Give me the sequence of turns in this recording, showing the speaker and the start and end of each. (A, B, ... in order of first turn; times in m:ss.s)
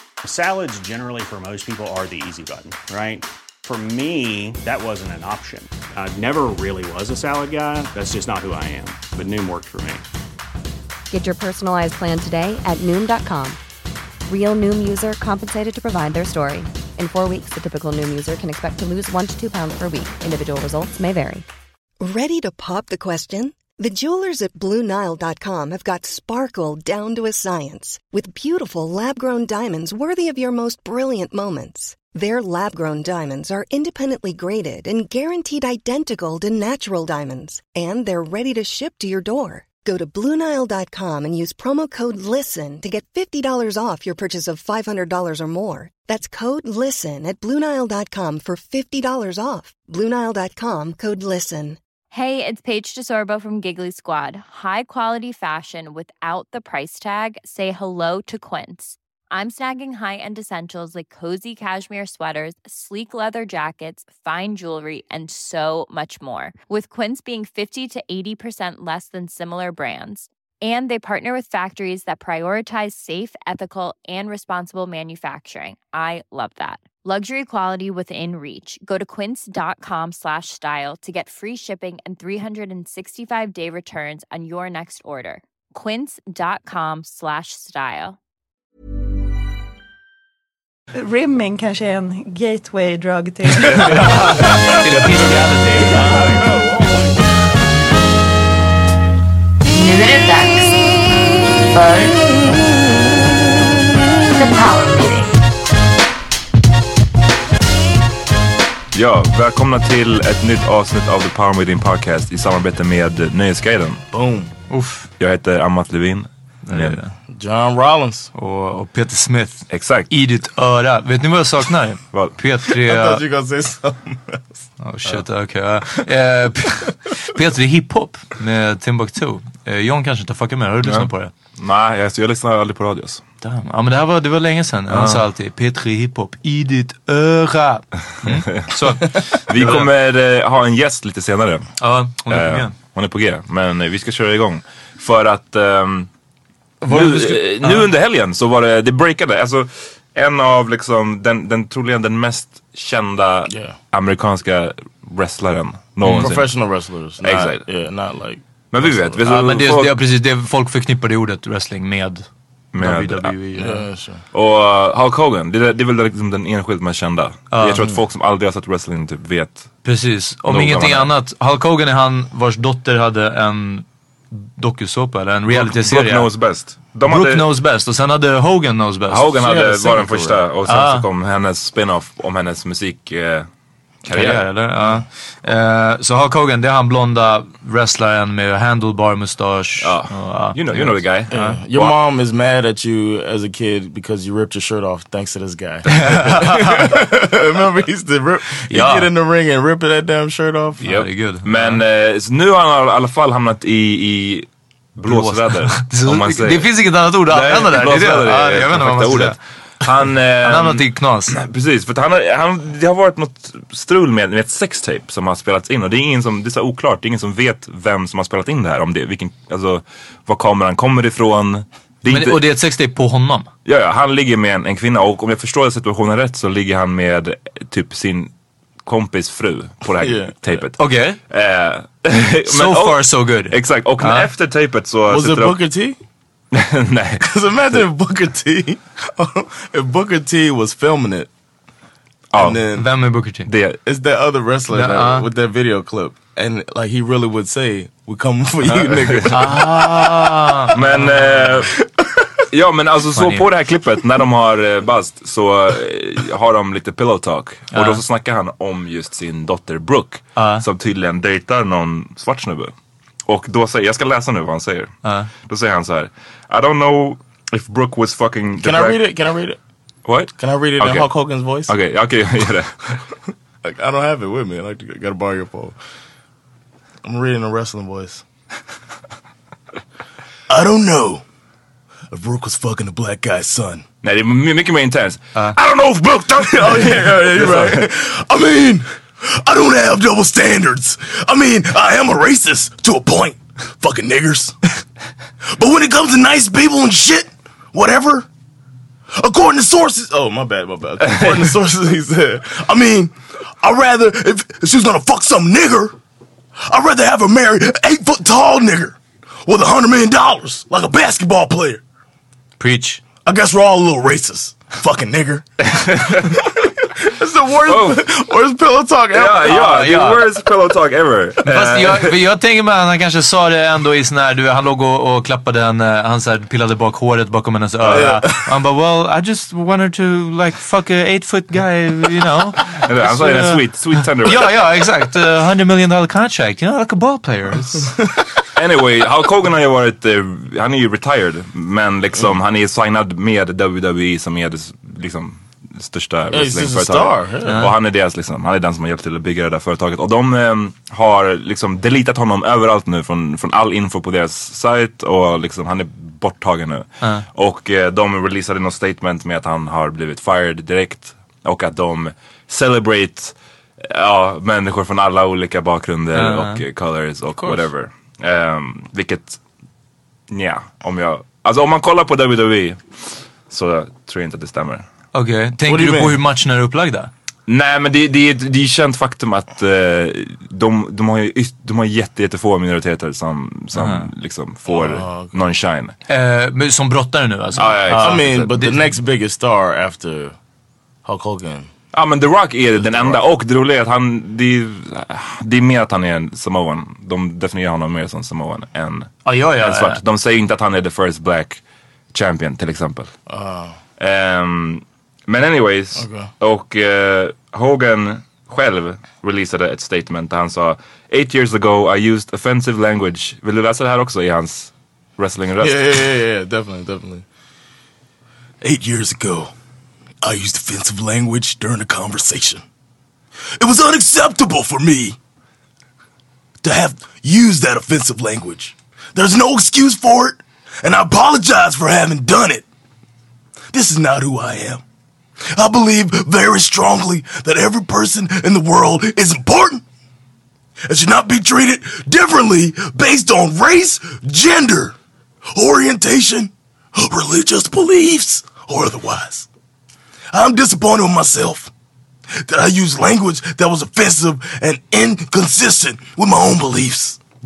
0:00.2-0:10.0 A
0:11.1-0:13.6 B
0:14.2-0:21.4 B
0:22.0-0:51.8 C
0:52.1-1:28.2 D
1:30.9-1:34.2 E
1:33.7-1:34.8 F
1:33.8-1:36.4 G
1:36.0-1:37.0 F
1:39.7-1:40.8 H
1:41.7-1:42.4 H
1:44.3-1:45.3 H
1:48.9-1:54.0 F
1:54.1-1:54.5 I
1:54.7-1:55.1 G
1:55.2-1:57.0 F
1:56.6-1:57.1 G
1:57.3-1:58.3 I
1:58.3-2:03.2 G
1:59.7-2:00.1 F
2:02.8-2:04.4 I
2:04.8-2:11.3 G
2:10.8-2:13.2 F
2:13.4-2:19.9 G
2:14.9-2:15.2 F
2:18.4-2:21.7 F
2:21.8-2:22.7 G
2:22.3-2:26.1 F
2:26.8-2:27.9 G
2:26.9-2:36.6 F
2:33.5-2:33.8 I
2:36.0-2:36.3 G
2:36.1-2:39.1 I
2:37.2-2:37.6 F
2:38.7-2:40.0 F
2:39.2-2:42.2 G
2:42.7-2:43.3 F
2:42.8-2:43.8 G
2:43.5-2:44.2 I
2:44.3-2:49.6 F
2:47.5-2:47.8 G
2:49.8-2:56.3 G
2:50.5-2:51.1 F
2:55.5-2:57.5 F
2:57.0-2:59.6 G
2:59.1-3:03.5 F
2:59.4-3:00.4 I
3:00.6-3:01.0 G
3:04.0-3:04.4 F
3:04.1-3:11.6 G
3:09.8-3:12.0 F
3:11.3-3:20.9 I
3:15.9-3:17.0 G
3:18.7-3:19.1 G
3:20.8-3:21.8 G
3:20.9-3:42.5 F
3:25.0-3:29.4 G
3:30.4-3:31.3 G
3:42.1-3:43.5 G
3:43.6-3:48.3 F
3:48.8-3:50.8 F
3:50.0-3:50.4 I
3:50.8-3:51.2 G
3:51.3-3:55.6 F
3:52.5-3:54.3 G
3:55.1-3:56.0 I
3:56.5-3:57.8 F
3:57.2-4:01.3 I
4:02.3-4:02.7 F
4:02.4-4:02.9 I
4:02.7-4:03.5 G
4:03.5-4:03.8 F
4:03.8-4:10.0 I
4:04.7-4:05.3 G
4:08.6-4:09.6 F
4:09.3-4:11.5 G
4:10.7-4:11.7 F
4:11.8-4:12.1 I
4:12.5-4:22.7 F
4:13.1-4:13.5 G
4:17.7-4:18.0 G
4:20.4-4:20.6 G
4:23.2-4:24.9 F
4:25.0-4:25.3 G
4:25.5-4:29.0 F
4:28.6-4:29.6 I
4:30.0-4:32.8 F
4:30.4-4:31.7 I
4:33.6-4:35.7 I
4:37.0-4:38.2 I
4:40.5-4:41.2 I
4:42.1-4:43.8 I
4:44.0-4:45.6 F
4:45.6-4:54.6 I
4:46.5-4:47.8 F
4:55.5-4:58.2 I
4:59.1-5:06.0 I
5:06.6-5:11.8 I
5:12.6-5:13.0 G
5:13.2-5:15.4 I
5:15.7-5:16.4 F
5:17.0-5:19.6 I
5:17.6-5:18.0 F
5:19.1-5:22.1 F
5:19.4-5:20.2 G
5:21.4-5:38.0 G
5:27.8-5:28.5 I
5:32.8-5:34.6 F
5:38.6-6:09.4 F
5:46.3-5:47.7 I
5:47.4-5:47.7 G
6:06.1-6:06.6 G
6:10.3-6:12.8 F
6:13.5-6:14.8 F
6:15.1-6:17.1 G
6:15.6-6:16.2 I
6:17.5-6:25.9 F
6:23.7-6:24.1 G
6:24.7-6:25.3 I
6:26.1-6:28.9 G
6:27.6-6:28.6 F
6:27.8-6:30.3 I
6:31.0-6:31.7 I
6:31.9-6:41.6 F
6:32.8-6:33.2 I
6:39.2-6:40.0 G
6:42.1-6:43.1 F
6:43.3-6:43.8 I
6:44.0-6:56.1 F
6:45.9-6:46.3 I
6:55.6-6:57.2 I
6:58.6-6:59.5 I
7:00.2-7:02.6 I
7:03.6-7:05.2 I
7:06.6-7:12.6 I
7:13.7-7:14.8 I
7:15.5-7:19.8 I
7:20.9-7:24.9 I
7:25.5-7:29.5 I
7:30.3-7:31.7 I
7:32.4-7:37.2 I